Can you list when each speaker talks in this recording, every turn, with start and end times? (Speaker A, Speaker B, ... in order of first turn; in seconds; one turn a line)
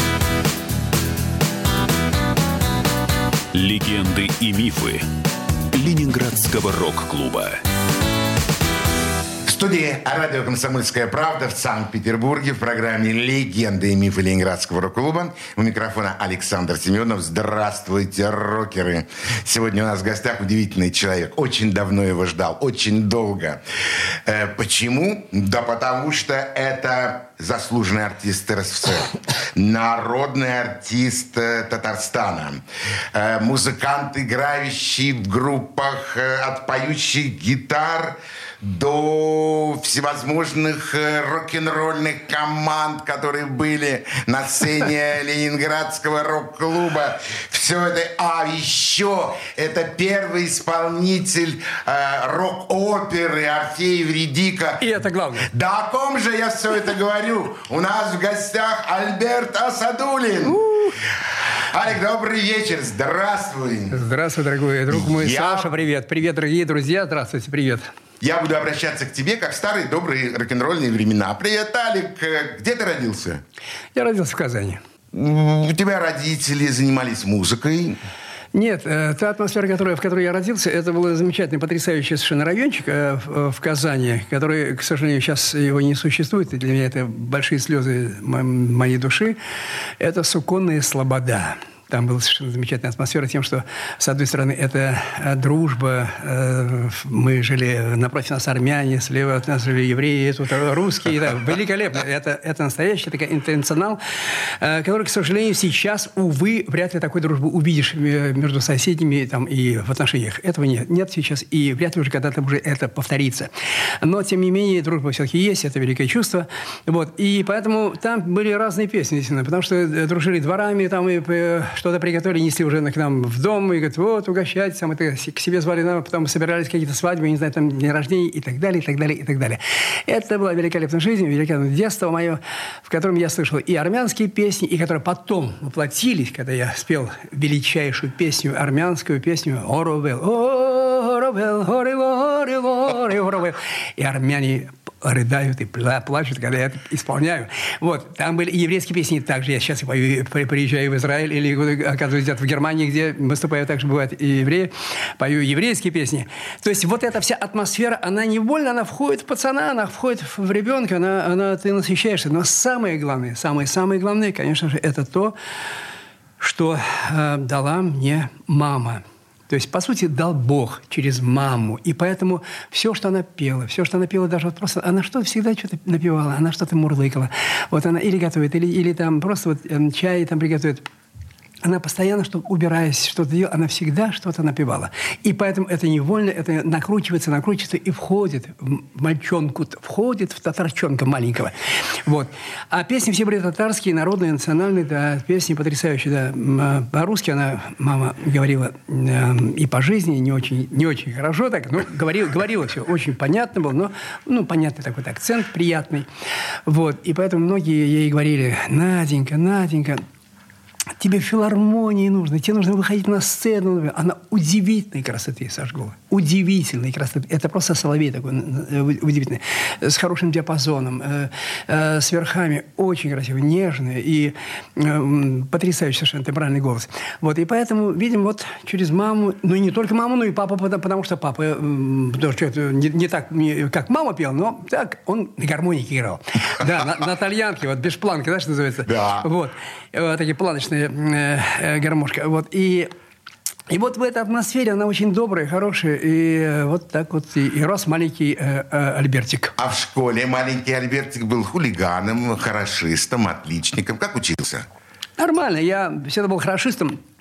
Speaker A: 3.5-5.1
Speaker A: 5.7-7.6
Speaker B: 9.4-32.6
Speaker B: 33.1-54.8
Speaker C: 54.8-55.5
Speaker B: 55.4-60.6
Speaker C: 60.4-61.0
Speaker B: 61.7-64.0
Speaker C: 63.9-67.9
Speaker B: 64.9-65.7
Speaker B: 68.2-73.4
Speaker C: 73.9-74.8
Speaker B: 75.1-78.0
Speaker C: 78.5-89.4
Speaker C: 90.0-113.5
Speaker C: 114.0-165.3
Speaker C: 166.4-180.8
Speaker C: 181.6-191.5
Speaker C: 192.0-206.1
Speaker C: 206.7-210.0
Speaker C: 211.0-242.9
Speaker B: 238.8-239.3
Speaker C: 243.7-249.5
Speaker B: 249.6-254.7
Speaker C: 255.2-257.0